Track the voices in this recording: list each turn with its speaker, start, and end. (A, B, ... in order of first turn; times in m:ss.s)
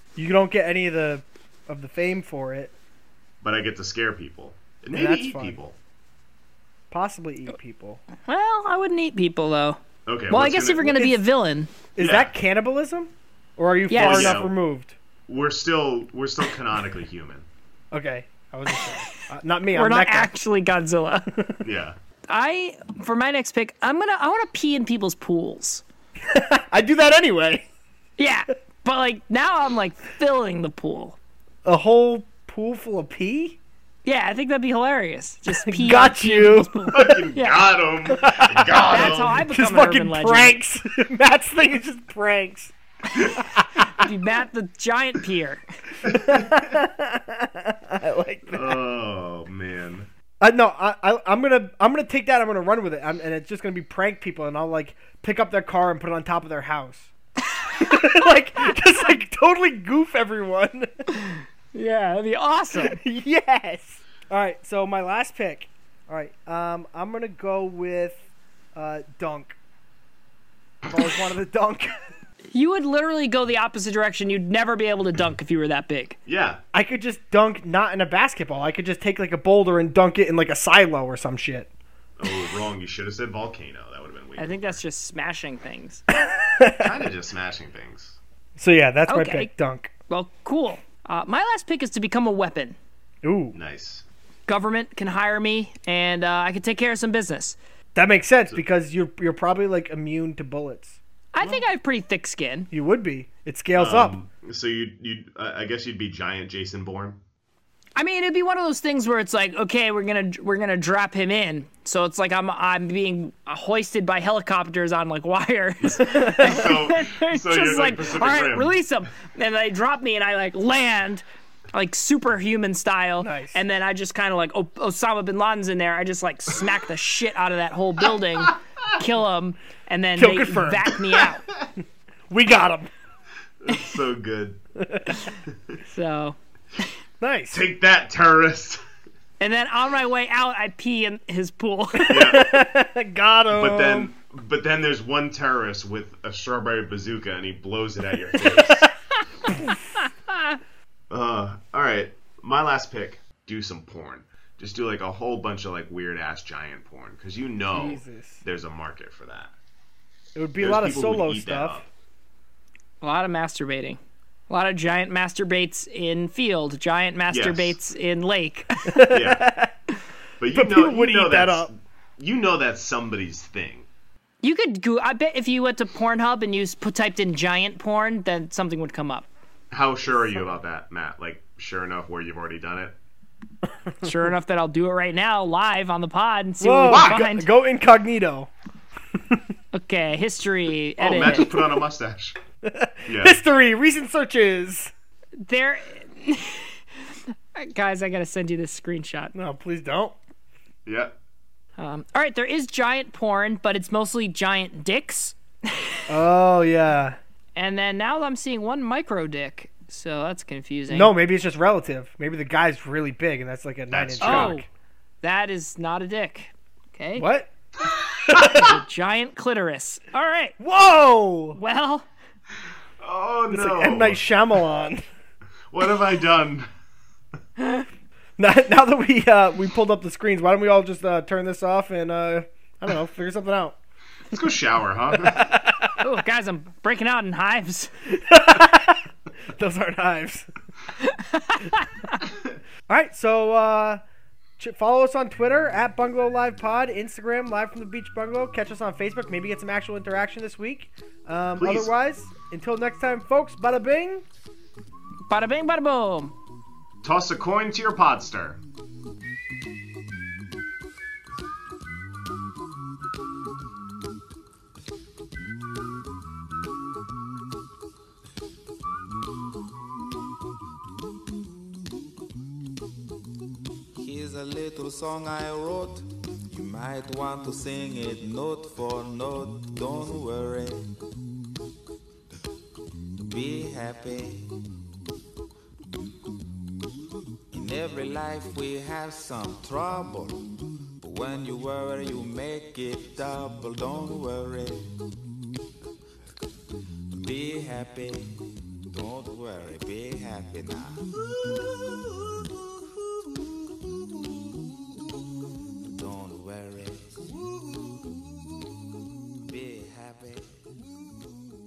0:00.2-0:02.7 A
0:03.4-0:05.8 B
0:04.9-0:05.6 A
0:06.9-0:08.0 A
0:08.2-0:11.7 C
0:10.0-0:11.1 B
0:11.9-0:15.0 A
0:12.0-0:12.3 B
0:13.9-0:14.4 C
0:13.9-0:14.5 B
0:15.3-0:17.4 B
0:17.9-0:20.3 A
0:19.7-0:21.3 C
0:21.6-0:22.0 B
0:22.3-0:25.8 C
0:26.2-0:27.7 A
0:28.2-0:31.2 C
0:31.6-0:33.6 A
0:34.0-0:37.7 C
0:35.5-0:36.8 A
0:36.9-0:39.4 B
0:38.1-0:42.7 A
0:38.9-0:40.5 C
0:43.1-0:45.6 C
0:43.4-0:44.1 A
0:46.0-0:48.8 A
0:46.0-0:46.7 B
0:48.5-0:50.1 B
0:50.4-0:57.1 A
0:57.8-1:01.0 A
1:01.2-1:03.0 C
1:02.7-1:08.2 A
1:08.7-1:09.6 A
1:10.8-1:12.0 A
1:12.5-1:16.2 C
1:16.2-1:16.6 B
1:16.7-1:21.7 A
1:22.2-1:24.8 B
1:24.4-1:26.0 C
1:26.1-1:27.0 A
1:26.8-1:28.2 B
1:28.6-1:29.9 A
1:29.1-1:29.5 C
1:30.1-1:32.8 C
1:33.2-1:33.5 A
1:33.5-1:34.0 B
1:34.5-1:37.6 C
1:37.9-1:41.0 A
1:41.3-1:42.7 C
1:42.7-1:44.1 A
1:43.8-1:47.2 B
1:48.0-2:11.4 C
1:55.9-1:58.7 B
1:56.0-1:56.7 A
2:03.2-2:03.6 A
2:10.2-2:11.0 A
2:12.3-2:12.9 A
2:13.6-2:14.6 B
2:14.8-2:15.2 A
2:15.8-2:16.4 C
2:17.2-2:17.6 A
2:17.5-2:18.8 B
2:19.4-2:22.2 C
2:22.0-2:24.1 A
2:22.1-2:22.5 B
2:23.5-2:28.9 B
2:31.1-2:39.5 B
2:37.7-2:38.4 A
2:40.4-2:41.8 A
2:40.6-2:41.8 B
2:43.0-2:49.0 C
2:47.3-2:47.8 B
2:48.8-2:49.7 A
2:49.1-2:49.4 B
2:50.4-2:53.8 B
2:50.5-2:51.7 A
2:54.4-2:59.3 C
2:59.7-3:02.9 B
3:03.9-3:04.3 A
3:04.0-3:07.4 C
3:06.6-3:08.5 A
3:06.9-3:07.3 B
3:09.7-3:11.5 C
3:11.0-3:12.4 B
3:11.2-3:11.7 A
3:12.6-3:14.9 A
3:13.1-3:13.4 B
3:15.4-3:19.3 C
3:19.3-3:20.2 A
3:20.8-3:21.1 B
3:21.8-3:26.0 C
3:26.1-3:27.2 A
3:27.6-3:31.1 C
3:30.9-3:34.6 A
3:33.9-3:34.5 B
3:34.2-3:34.6 C
3:35.2-3:37.3 C
3:37.2-3:37.5 A
3:38.2-3:38.7 A
3:38.3-3:40.6 C
3:38.3-3:38.7 B
3:40.6-3:41.6 A
3:41.5-3:42.0 C
3:43.0-3:44.6 B
3:43.5-3:45.0 A
3:45.7-3:46.7 B
3:48.4-3:53.8 A
3:54.3-3:55.5 B
3:55.2-3:56.0 A
3:56.0-3:57.9 C
3:58.1-4:00.5 A
4:01.0-4:02.2 C
4:02.9-4:04.0 A
4:04.6-4:14.2 A
4:11.6-4:11.9 B
4:15.3-4:16.3 C
4:17.0-4:18.6 B
4:33.9-4:41.0 D
4:43.3-4:44.7 D
4:47.5-4:50.4 D
4:51.0-4:55.0 D
4:57.1-5:01.1 D
5:05.9-5:07.5 D
5:09.5-5:10.7 D